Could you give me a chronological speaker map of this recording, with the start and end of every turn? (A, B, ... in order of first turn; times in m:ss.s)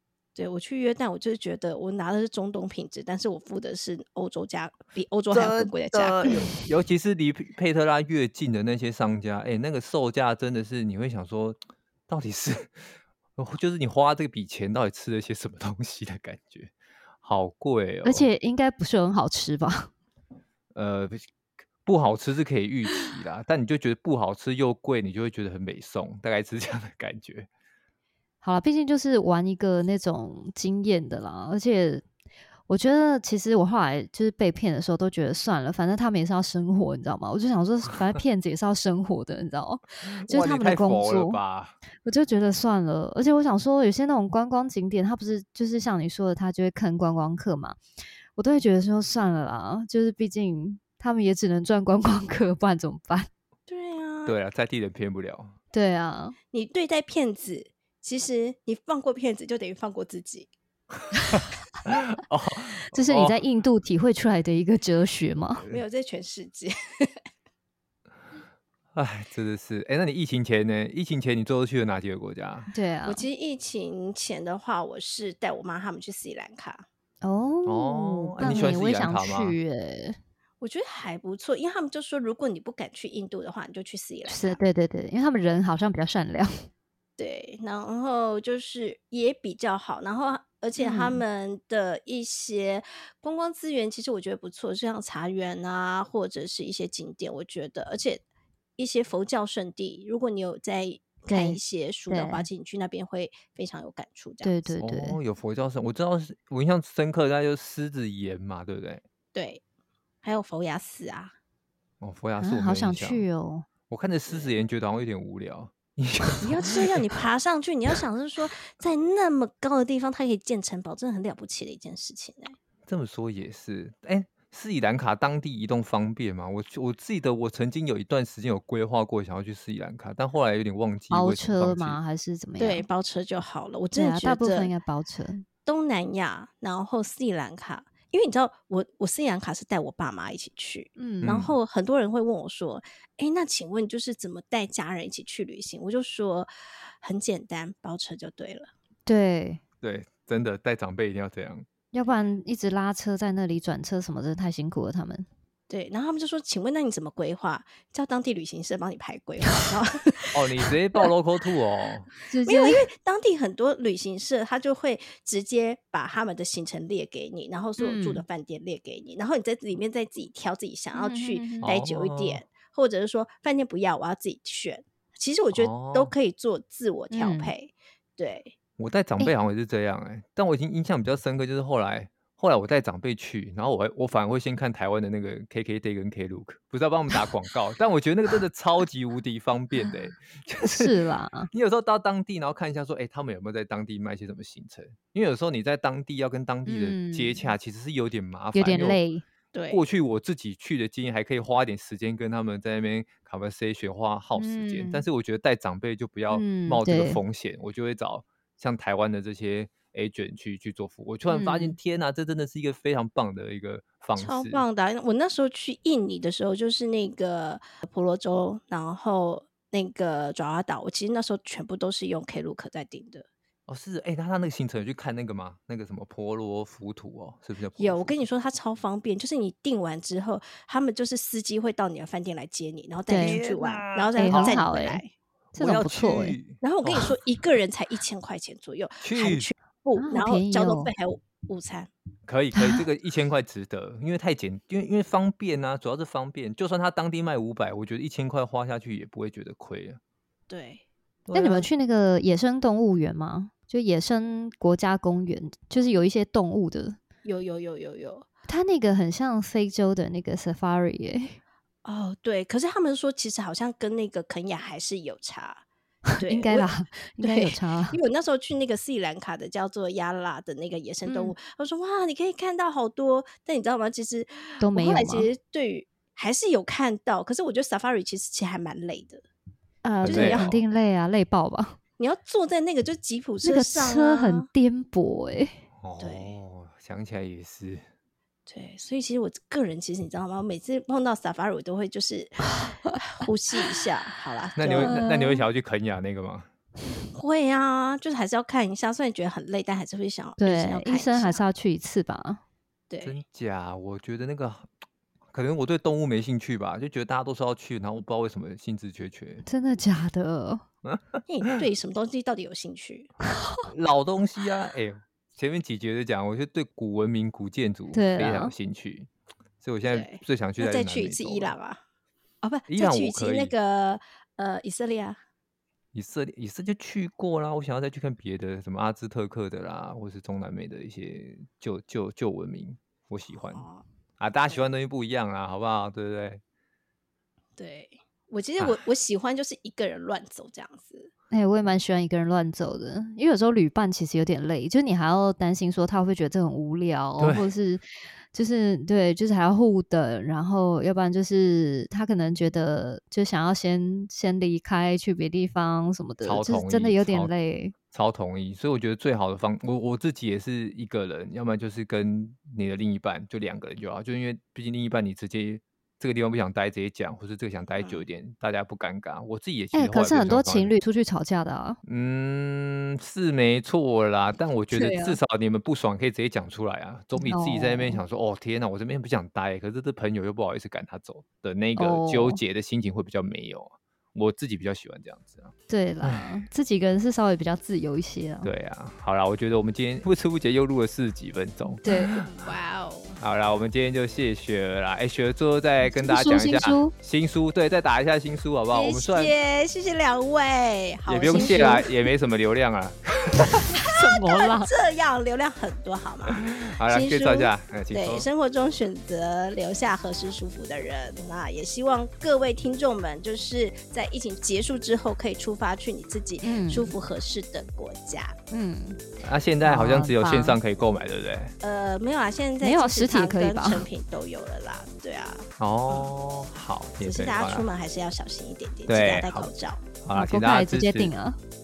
0:00.4-0:06.5 A
0:05.3-0:18.3 B
0:18.0-0:19.9 C
0:20.7-0:21.3 B
0:21.8-0:27.5 B
0:28.4-0:32.0 C
0:32.7-0:41.4 C
0:40.0-0:41.7 B
0:42.0-0:47.8 C
0:48.4-0:53.3 C
0:53.7-0:54.4 A
0:54.2-0:55.5 B
0:55.7-0:56.4 C
0:56.5-1:00.5 A
1:01.2-1:03.4 B
1:02.9-1:05.6 C
1:05.7-1:07.2 A
1:08.9-1:12.7 B
1:12.7-1:13.2 C
1:13.0-1:16.8 A
1:17.2-1:20.2 C
1:17.6-1:19.6 B
1:20.6-1:24.6 A
1:24.3-1:26.6 C
1:27.2-1:38.2 A
1:30.8-1:31.2 C
1:38.8-1:44.7 A
1:41.3-1:42.5 C
1:44.4-1:45.2 C
1:44.8-1:49.0 B
1:49.3-1:49.6 A
1:50.2-1:51.3 A
1:52.0-1:53.3 B
1:52.4-1:53.7 C
1:53.9-1:56.8 B
1:56.4-2:02.6 A
2:02.8-2:12.0 B
2:11.1-2:12.9 C
2:12.6-2:14.7 A
2:13.9-2:15.4 C
2:15.6-2:26.5 A
2:21.0-2:21.4 C
2:21.2-2:21.5 B
2:27.0-2:28.7 A
2:29.1-2:29.6 C
2:29.8-2:31.6 B
2:31.9-2:35.2 C
2:35.7-2:41.1 A
2:40.3-2:42.1 B
2:42.3-2:42.9 C
2:42.4-2:58.5 A
2:47.8-2:48.2 C
2:50.9-2:51.8 C
2:51.6-2:52.4 B
2:55.5-2:56.1 B
2:57.1-2:57.5 C
2:58.8-3:10.9 B
3:10.6-3:11.5 C
3:11.5-3:19.0 B
3:16.6-3:17.5 C
3:18.5-3:19.2 C
3:19.5-3:19.8 A
3:19.7-3:34.6 B
3:24.3-3:25.0 C
3:26.3-3:27.2 C
3:31.3-3:31.8 C
3:34.2-3:43.3 A
3:43.7-3:48.2 B
3:47.8-3:55.1 A
3:53.1-3:53.4 C
3:53.2-3:54.6 B
3:54.2-3:55.0 C
3:55.6-3:56.4 C
3:55.6-3:57.2 B
3:56.6-4:01.9 A
3:59.0-3:59.5 B
4:00.0-4:00.9 C
4:02.3-4:10.0 B
4:02.5-4:02.8 C
4:10.5-4:10.8 A
4:11.2-4:11.7 B
4:11.3-4:17.0 C
4:17.2-4:18.3 A
4:18.5-4:21.4 C
4:21.8-4:25.6 A
4:26.2-4:39.2 A
4:26.2-4:28.0 C
4:31.0-4:31.3 C
4:34.6-4:35.3 C
4:39.8-4:41.8 C
4:40.0-4:40.6 B
4:40.1-4:40.5 A
4:42.0-4:44.5 A
4:43.4-4:45.6 C
4:45.8-4:47.8 B
4:46.0-4:46.3 A
4:48.5-4:55.0 A
4:54.6-4:56.5 B
4:54.7-4:55.4 C
4:57.1-5:01.4 A
5:00.4-5:02.4 C
5:02.9-5:03.2 A
5:03.0-5:04.7 B
5:05.3-5:09.4 B
5:09.4-5:10.6 C
5:10.8-5:11.2 B
5:11.2-5:13.1 A
5:13.7-5:19.1 B
5:17.9-5:18.5 C
5:19.6-5:21.6 B
5:19.8-5:21.8 A
5:22.4-5:25.2 A
5:22.7-5:23.5 B
5:25.9-5:33.6 B
5:33.5-5:33.8 A
5:34.2-5:36.4 B
5:37.6-5:41.1 A
5:41.3-5:47.8 C
5:47.2-5:47.5 B
5:48.3-5:57.7 C
5:56.2-5:57.3 B
5:57.9-6:10.7 B
6:07.8-6:08.0 A
6:09.7-6:11.8 C
6:11.8-6:26.4 B
6:14.7-6:15.2 C
6:17.2-6:18.0 C
6:21.8-6:22.4 C
6:25.7-6:28.5 C
6:28.4-6:32.3 B
6:31.8-6:32.2 C
6:32.1-6:33.2 A
6:33.2-6:39.3 B
6:35.8-6:36.9 C
6:38.7-6:41.9 A
6:41.1-6:43.7 B
6:41.2-6:41.8 C
6:43.4-6:44.7 C
6:44.1-6:58.4 A
6:46.3-6:48.3 B
6:56.4-6:56.9 C
6:58.5-6:59.0 C
6:59.2-7:01.5 B
6:59.6-7:00.6 C
7:01.6-7:06.1 A
7:02.6-7:03.8 C
7:05.6-7:07.7 B
7:07.0-7:09.8 A
7:08.9-7:09.5 B
7:10.0-7:11.1 B
7:10.1-7:11.4 C